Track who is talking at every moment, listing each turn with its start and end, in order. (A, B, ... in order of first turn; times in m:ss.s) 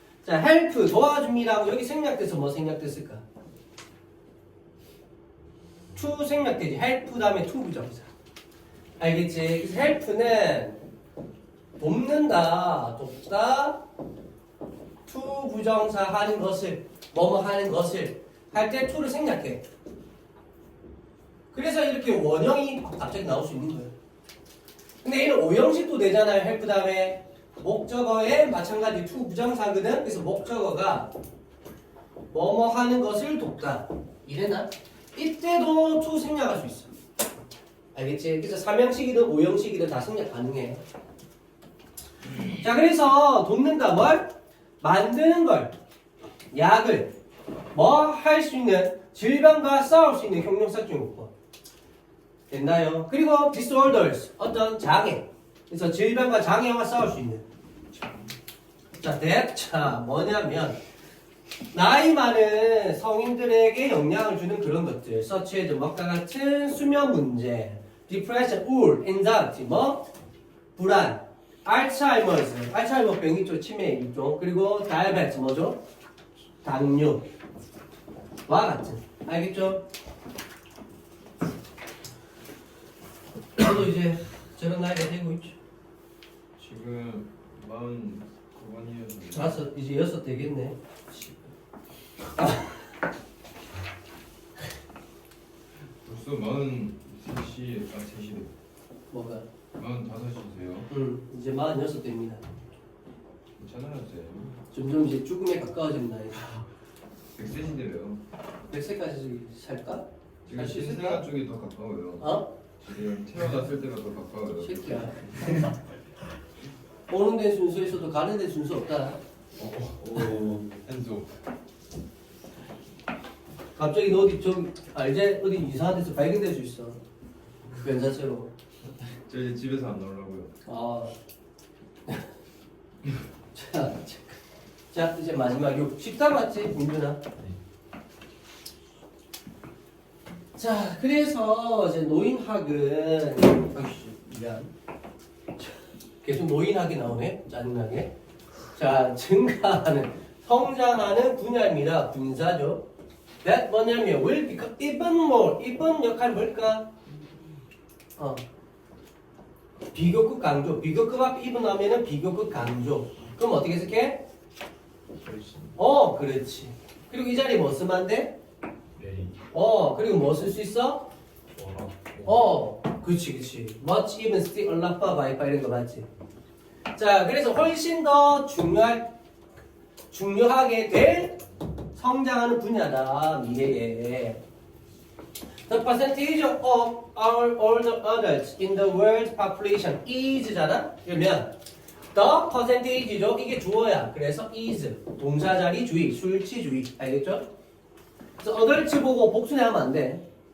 0:00.2-0:03.2 A
0:06.0-0:08.1 A
0:09.0-0:10.8 A
0:11.8-0:13.8 A
0:15.1-0:19.6 A
0:21.5-0:23.9 A
0:25.0-0:31.1 A
0:32.3-0:36.9 A
0:38.0-0:40.8 A
0:42.5-0:45.7 A
0:46.5-0:47.1 A
0:47.7-0:51.3 A
0:52.5-0:57.4 A
0:58.9-1:00.8 A
1:01.7-1:10.1 A
1:10.8-1:15.8 A
1:16.6-1:17.2 A
1:18.5-1:19.8 A
1:23.6-1:25.6 A
1:26.6-1:29.7 B
1:29.3-1:31.3 A
1:32.4-1:32.7 A
1:36.0-1:38.5 B
1:39.1-1:39.5 A
1:39.8-1:40.9 B
1:40.9-1:42.4 A
1:43.6-1:44.6 B
1:44.7-1:46.6 A
1:47.4-1:48.2 B
1:48.7-1:51.2 A
1:50.5-1:55.7 B
1:52.2-1:52.5 A
1:54.6-1:55.6 A
1:57.1-1:59.2 A
1:59.6-2:01.4 B
2:03.8-2:07.0 A
2:07.7-2:08.5 A
2:08.8-2:10.5 B
2:10.7-2:11.2 A
2:13.5-2:14.4 A
2:14.9-2:17.2 A
2:20.6-2:24.7 A
2:26.2-2:28.1 A
2:28.8-2:32.8 A
2:33.4-2:36.9 A
2:39.9-2:44.2 A
2:45.2-2:45.7 B
2:45.8-2:48.4 A
2:49.0-2:49.4 B
2:49.5-2:51.1 A
2:51.6-2:52.3 B
2:52.2-2:56.1 A
2:57.0-2:59.1 A
3:00.1-3:01.4 A
3:01.9-3:04.4 A
3:05.7-3:11.5 A
3:12.1-3:17.4 A
3:18.4-3:20.2 A